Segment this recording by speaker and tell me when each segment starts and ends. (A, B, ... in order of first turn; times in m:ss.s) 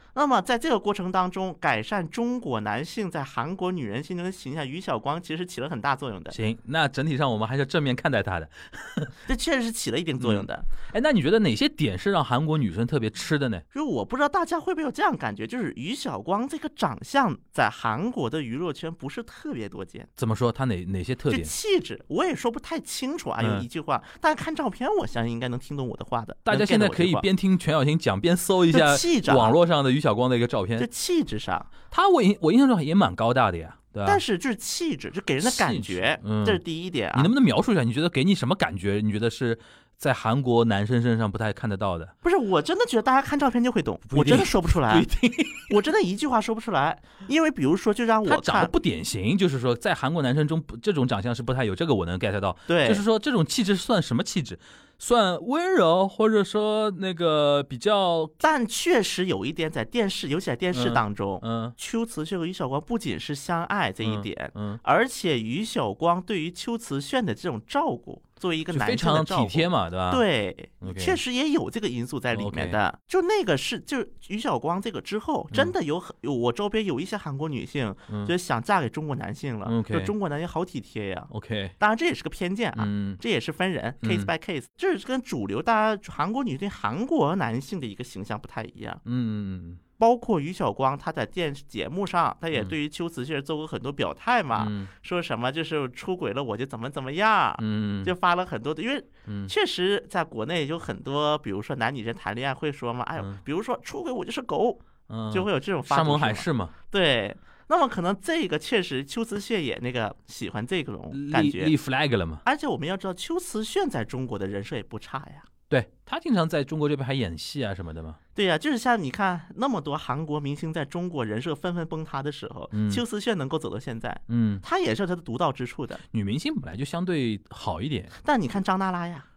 0:00.1-0:06.4 A
0:06.3-0:09.1 B
0:09.3-0:10.7 A
0:10.2-0:13.6 B
0:13.7-0:20.1 A
0:20.2-0:21.5 B
0:21.3-0:27.2 A
0:23.4-0:23.7 B
0:26.5-0:30.9 B
0:28.7-0:29.6 A
0:30.8-0:31.7 A
0:31.9-0:34.2 B
0:34.0-0:37.3 A
0:35.4-0:36.6 B
0:37.1-0:42.1 B
0:42.2-0:45.1 A
0:44.1-0:45.7 B
0:45.7-0:48.7 A
0:48.2-0:58.3 B
0:52.7-0:53.0 A
0:58.4-1:29.0 A
1:00.7-1:01.8 B
1:04.0-1:04.8 B
1:08.7-1:10.2 B
1:10.8-1:11.2 B
1:12.3-1:12.8 B
1:18.1-1:18.3 B
1:19.7-1:20.1 B
1:21.3-1:21.7 B
1:22.8-1:23.2 B
1:24.0-1:24.3 B
1:29.0-1:29.8 B
1:30.0-1:51.7 A
1:34.6-1:34.9 B
1:37.6-1:38.1 B
1:45.1-1:46.7 B
1:51.1-1:52.4 B
1:52.4-1:55.5 A
1:55.7-1:58.2 B
1:58.3-2:06.0 A
2:02.7-2:03.0 B
2:04.3-2:04.6 B
2:06.1-2:08.1 B
2:08.2-2:09.3 A